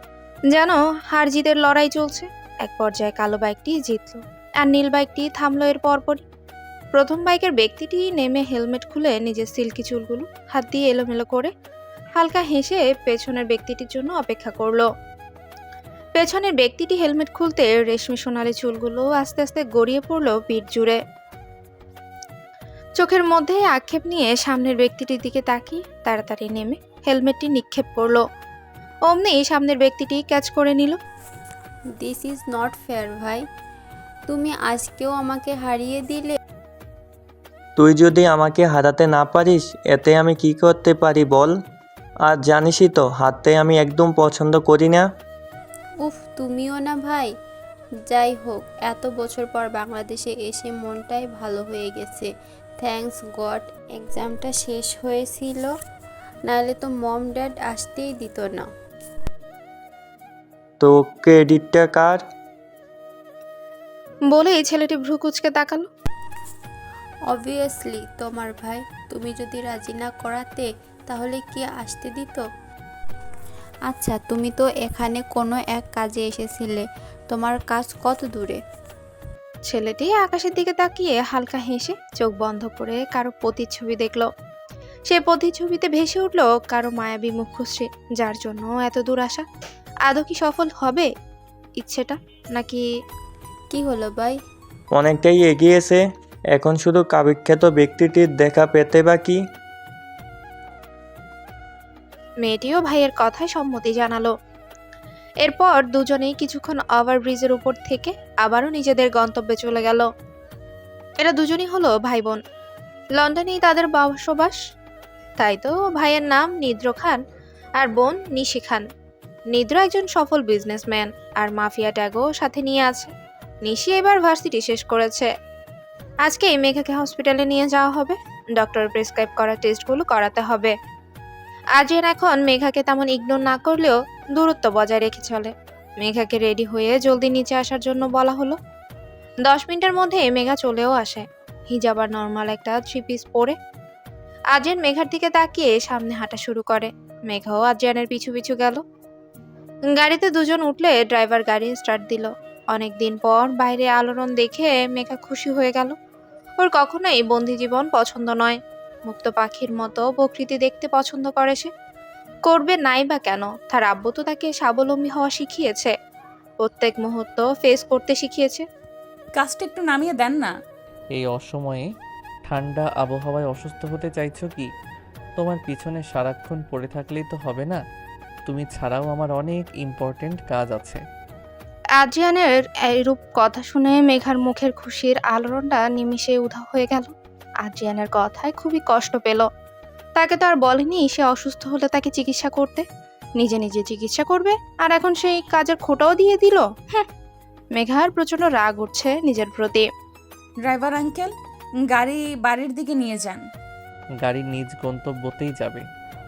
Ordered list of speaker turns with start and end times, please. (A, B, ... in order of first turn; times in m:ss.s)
0:00.5-0:06.2 A
0:06.9-0:11.5 A
0:12.2-0:14.9 A
0:16.2-0:21.0 A
0:23.0-0:28.2 A
0:29.1-0:31.0 A
0:32.0-0:33.4 B
0:34.3-0:36.4 B
0:37.8-0:41.5 C
0:42.2-0:45.1 C
0:46.0-0:47.3 B
0:48.1-0:52.3 B
0:52.8-0:55.7 B
0:56.4-0:58.7 B
1:00.8-1:02.2 C
1:04.3-1:05.9 A
1:07.3-1:12.4 B
1:13.9-1:18.6 B
1:19.6-1:24.3 A
1:25.1-1:29.4 A
1:30.0-1:31.1 A
1:31.8-1:32.8 A
1:33.7-1:34.4 B
1:34.9-1:39.4 C
1:42.4-1:44.3 A
1:45.4-1:50.1 A
1:51.2-1:52.4 A
1:53.2-1:54.6 A
1:55.4-1:57.2 A
1:57.8-1:58.8 A
1:59.5-2:03.1 A
2:03.6-2:05.3 A
2:06.2-2:10.7 A
2:11.7-2:18.6 A
2:19.4-2:23.6 A
2:24.5-2:28.8 A
2:29.9-2:36.0 A
2:36.6-2:41.7 A
2:42.5-2:45.9 A
2:46.6-2:48.6 A
2:49.4-2:50.5 D
2:51.1-2:51.9 E
2:52.5-2:54.7 E
2:55.4-2:57.8 E
2:58.4-3:01.0 E
3:02.0-3:09.5 A
3:10.2-3:12.8 A
3:13.4-3:17.1 A
3:17.8-3:19.9 A
3:20.6-3:21.3 D
3:21.8-3:23.4 D
3:24.2-3:25.8 E